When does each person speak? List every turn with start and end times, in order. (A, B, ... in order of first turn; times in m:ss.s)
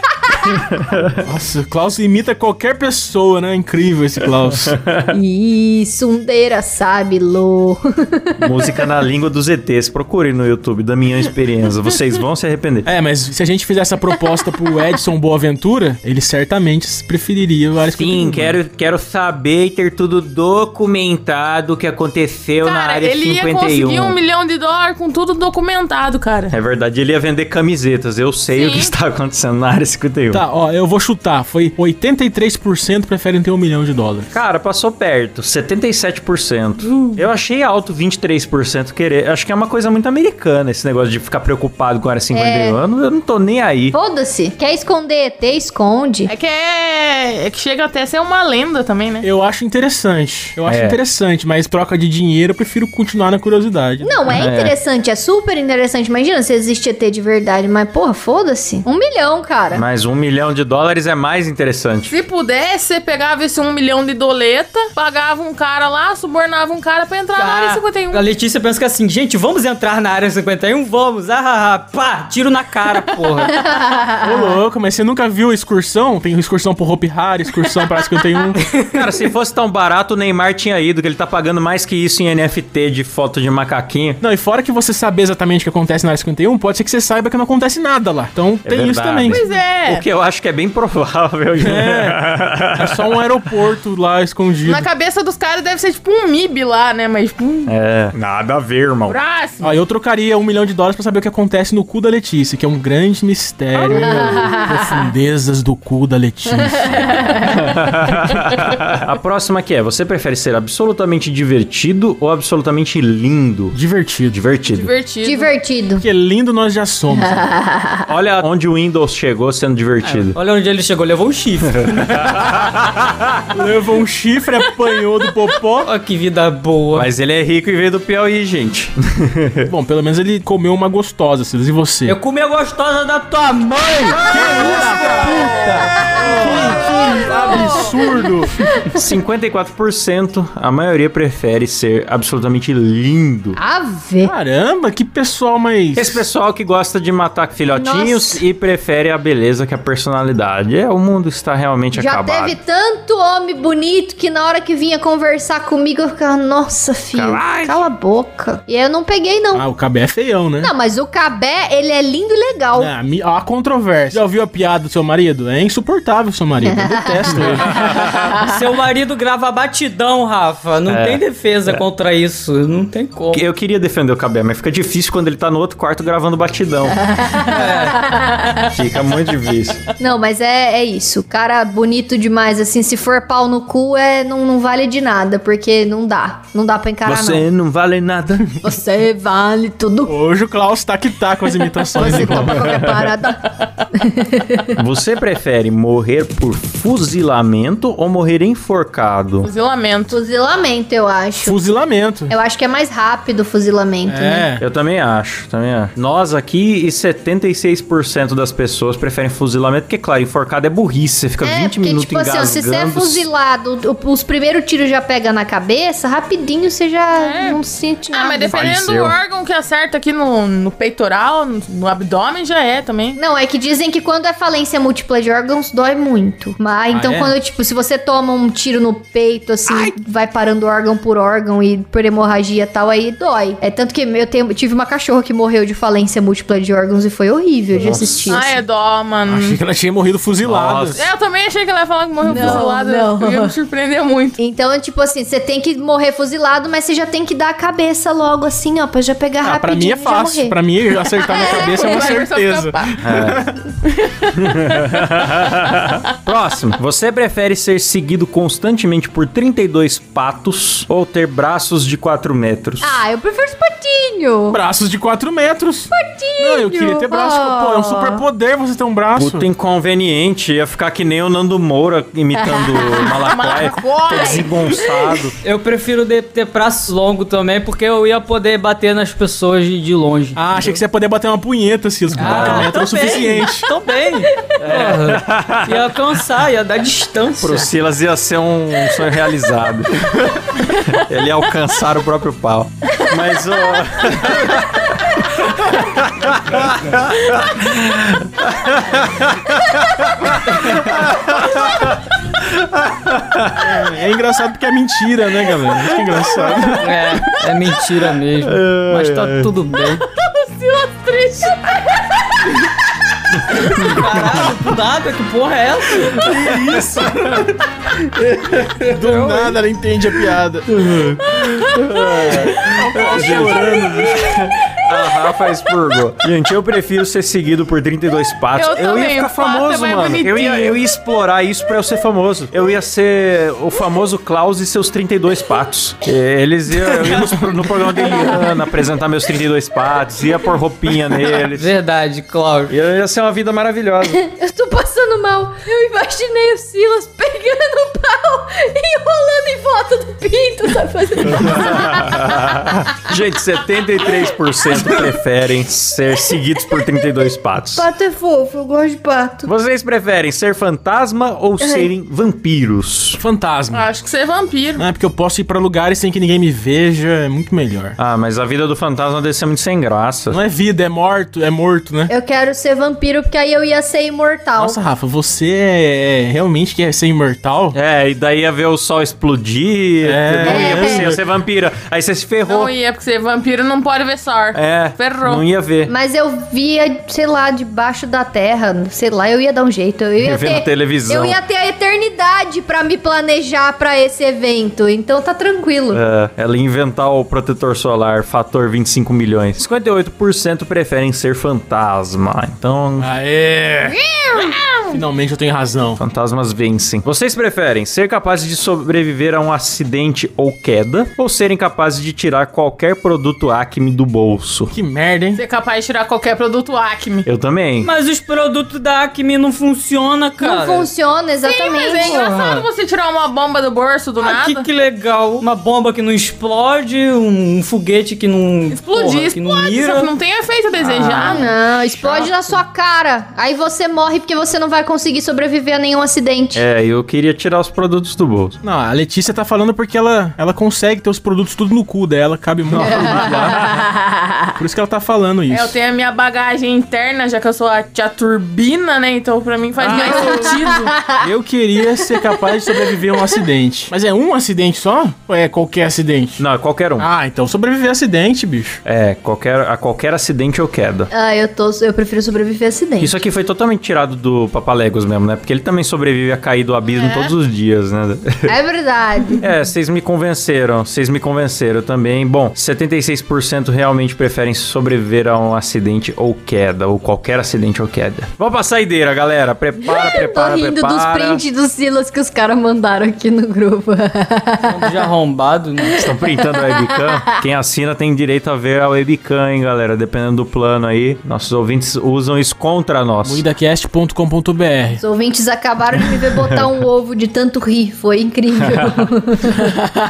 0:00.2-0:00.6 A
0:00.4-0:01.2 B
0:01.2-0:04.8 C
0:04.4-0:05.2 B
0:05.1-0:08.8 A
0:08.4-0:12.9 B
0:12.8-0:18.6 C
0:17.9-0:24.2 B
0:22.6-0:26.5 D
0:26.5-0:30.4 B
0:28.5-0:28.9 D
0:30.3-0:34.3 C
0:34.3-0:44.0 B
0:42.3-0:42.8 A
0:43.9-0:46.3 A
0:46.3-0:49.2 D
0:49.2-0:54.4 C
0:50.6-0:51.0 B
0:54.0-0:59.8 A
0:54.3-0:54.7 B
0:59.7-1:02.2 B
1:02.1-1:08.2 D
1:07.4-1:13.6 E
1:13.5-1:14.5 A
1:14.2-1:18.6 C
1:18.6-1:19.0 E
1:18.9-1:24.2 B
1:24.2-1:29.4 C
1:28.6-1:33.2 B
1:29.3-1:30.0 D
1:31.6-1:32.2 C
1:32.7-1:34.8 C
1:34.6-1:37.7 D
1:37.7-1:39.2 B
1:39.1-1:39.8 D
1:39.6-1:47.4 C
1:43.7-1:44.2 D
1:43.9-1:45.1 A
1:46.6-1:47.6 A
1:47.5-1:53.8 B
1:53.7-1:54.4 C
1:54.3-1:54.9 B
1:54.7-1:55.5 D
1:55.2-1:56.0 A
1:56.0-1:57.4 C
1:57.1-1:58.0 A
1:58.1-2:00.4 B
2:00.0-2:02.1 E
2:01.9-2:03.4 B
2:03.5-2:05.9 C
2:05.8-2:07.1 E
2:06.9-2:09.7 B
2:09.7-2:12.2 C
2:12.0-2:16.8 E
2:14.2-2:18.6 C
2:18.9-2:23.6 B
2:23.5-2:24.3 A
2:24.2-2:26.2 C
2:25.9-2:32.6 B
2:27.7-2:28.4 A
2:31.9-2:39.6 A
2:37.1-2:37.8 B
2:39.5-2:40.7 C
2:40.6-2:42.9 A
2:42.7-2:47.9 C
2:46.6-2:47.8 A
2:48.3-2:53.4 E
2:50.8-2:51.8 B
2:53.3-2:57.1 B
2:57.0-2:58.6 A
2:57.4-2:58.1 E
2:58.7-2:59.8 B
3:00.0-3:07.5 A
3:07.0-3:08.5 B
3:08.6-3:10.1 A
3:10.1-3:12.9 C
3:11.9-3:14.7 A
3:14.7-3:19.5 B
3:19.4-3:20.2 D
3:20.1-3:21.6 A
3:21.4-3:22.3 C
3:22.3-3:24.5 A
3:24.1-3:24.6 C
3:24.6-3:33.3 B
3:31.4-3:38.5 A
3:37.1-3:43.2 D
3:38.5-3:39.2 B
3:43.2-3:58.6 A
3:46.9-3:47.3 C
3:49.7-3:49.9 B
3:57.7-3:58.4 B
3:58.3-3:59.6 D
3:59.3-4:01.1 C
4:00.4-4:01.0 B
4:01.0-4:04.4 D
4:02.2-4:03.5 A
4:02.3-4:02.6 B
4:04.4-4:10.6 A
4:09.4-4:13.6 C
4:11.2-4:13.0 D
4:11.2-4:12.1 A
4:13.0-4:13.4 B
4:13.8-4:14.8 D
4:14.4-4:23.0 B
4:22.8-4:24.6 A
4:24.5-4:29.5 C
4:25.9-4:28.2 A
4:29.1-4:35.3 B
4:32.4-4:33.3 A
4:33.2-4:34.7 D
4:34.1-4:34.5 A
4:35.4-4:40.8 E
4:40.4-4:43.7 C
4:42.1-4:47.6 E
4:42.2-4:42.7 B
4:44.6-4:45.8 B
4:47.4-5:03.8 B
5:03.6-5:07.4 C
5:05.8-5:06.8 B
5:06.8-5:10.1 E
5:08.4-5:09.5 B
5:10.2-5:11.8 D
5:13.6-5:14.4 B
5:13.6-5:16.2 E
5:16.0-5:17.5 B
5:16.1-5:17.6 C
5:18.7-5:20.8 C
5:18.9-5:19.6 E
5:20.7-5:41.7 B
5:22.2-5:24.4 C
5:28.5-5:30.8 D
5:41.4-5:42.7 E
5:42.7-5:44.2 B
5:44.2-5:52.4 A
5:51.2-5:57.9 B
5:57.7-5:59.5 A
5:59.4-6:03.2 B
6:01.6-6:01.9 A
6:03.2-6:03.8 C
6:03.7-6:04.8 D
6:04.8-6:08.0 C
6:08.0-6:10.4 B
6:10.3-6:12.1 C
6:12.1-6:14.8 A
6:14.6-6:17.8 C
6:17.7-6:22.7 B
6:20.0-6:21.2 C
6:20.4-6:21.1 A
6:22.5-6:25.4 D
6:24.5-6:25.9 B
6:25.9-6:36.0 A
6:30.2-6:31.4 B
6:35.9-6:43.1 B
6:43.0-6:46.0 C
6:43.8-6:45.0 A
6:46.0-6:54.7 B
6:54.7-6:55.4 C
6:55.3-6:57.3 D
6:57.2-6:57.9 B
6:57.8-7:00.9 E
7:00.4-7:02.2 A
7:01.4-7:04.7 D
7:02.0-7:02.7 E
7:04.2-7:10.1 E
7:08.7-7:11.5 D
7:11.3-7:16.6 A
7:16.5-7:18.6 B
7:18.6-7:23.6 C
7:22.7-7:23.8 B
7:22.8-7:24.6 A
7:24.6-7:25.8 C
7:25.5-7:31.0 D
7:29.8-7:30.6 C
7:29.9-7:31.2 A
7:31.2-7:36.4 C
7:36.4-7:37.1 B
7:37.0-7:38.8 C
7:38.8-7:41.1 B
7:41.1-7:43.1 A
7:43.0-7:48.5 B
7:48.4-7:49.4 A
7:49.4-8:01.4 B
7:59.8-8:05.1 A
8:04.6-8:06.0 E
8:05.8-8:07.2 A
8:06.0-8:13.4 B
8:13.2-8:15.0 C
8:15.0-8:19.8 A
8:18.6-8:19.0 B